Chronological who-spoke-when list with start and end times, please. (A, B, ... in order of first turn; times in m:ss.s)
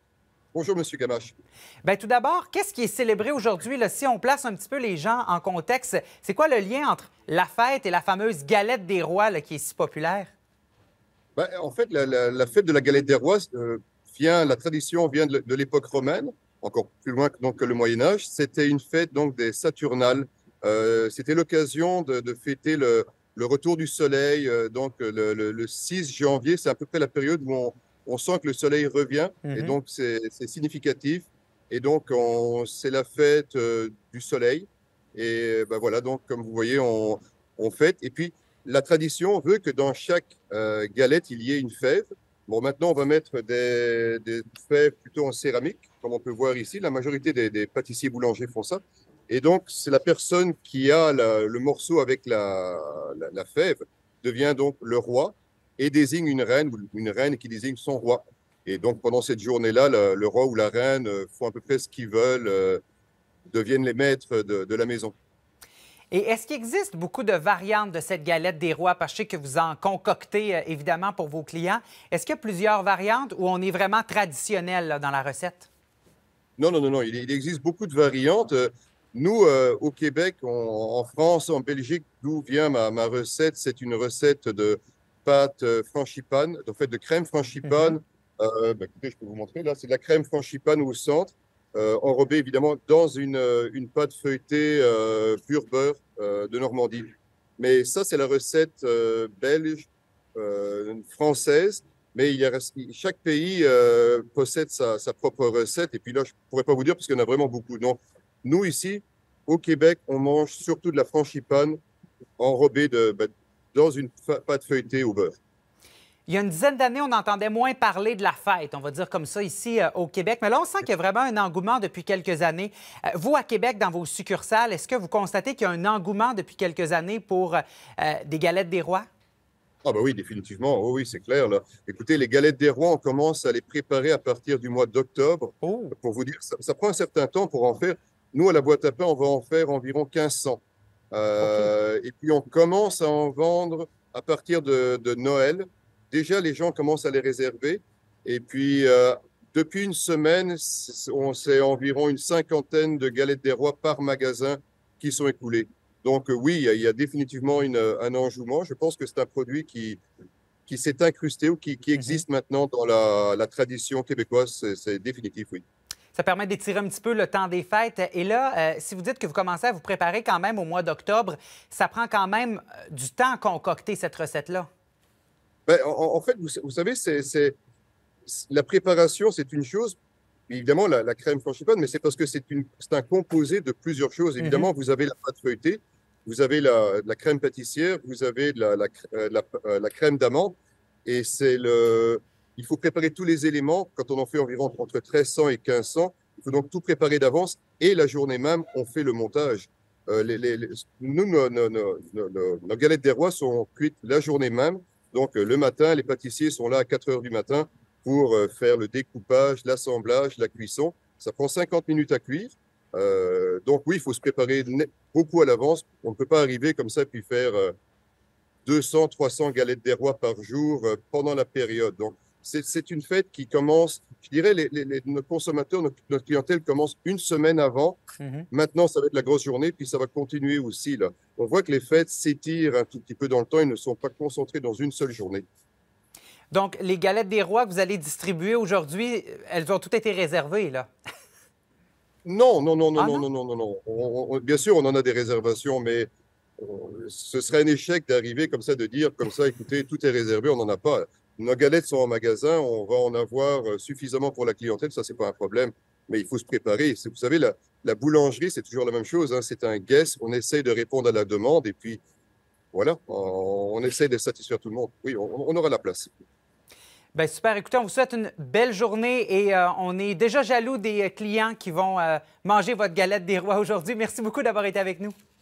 0:00.5-0:01.3 A
0:01.8-0:10.3 B
0:11.4-1:02.8 A
0:29.4-0:29.8 B
1:03.5-1:05.1 A
1:06.1-1:15.7 B
1:16.6-1:51.8 A
1:27.7-1:27.9 B
1:52.4-1:55.3 A
1:56.3-2:09.1 B
2:09.8-2:40.0 A
2:15.6-2:15.9 B
2:21.4-2:21.7 B
2:40.7-2:45.6 A
2:42.0-2:42.2 B
2:46.2-2:54.7 B
2:55.7-2:57.6 A
2:58.2-3:00.0 A
3:00.5-3:37.7 A
3:04.4-3:04.7 B
3:38.6-3:55.4 A
3:48.2-3:48.5 B
3:56.5-4:00.9 B
4:02.2-4:22.0 A
4:03.0-4:03.2 B
4:22.7-4:26.1 A
4:27.1-4:35.1 B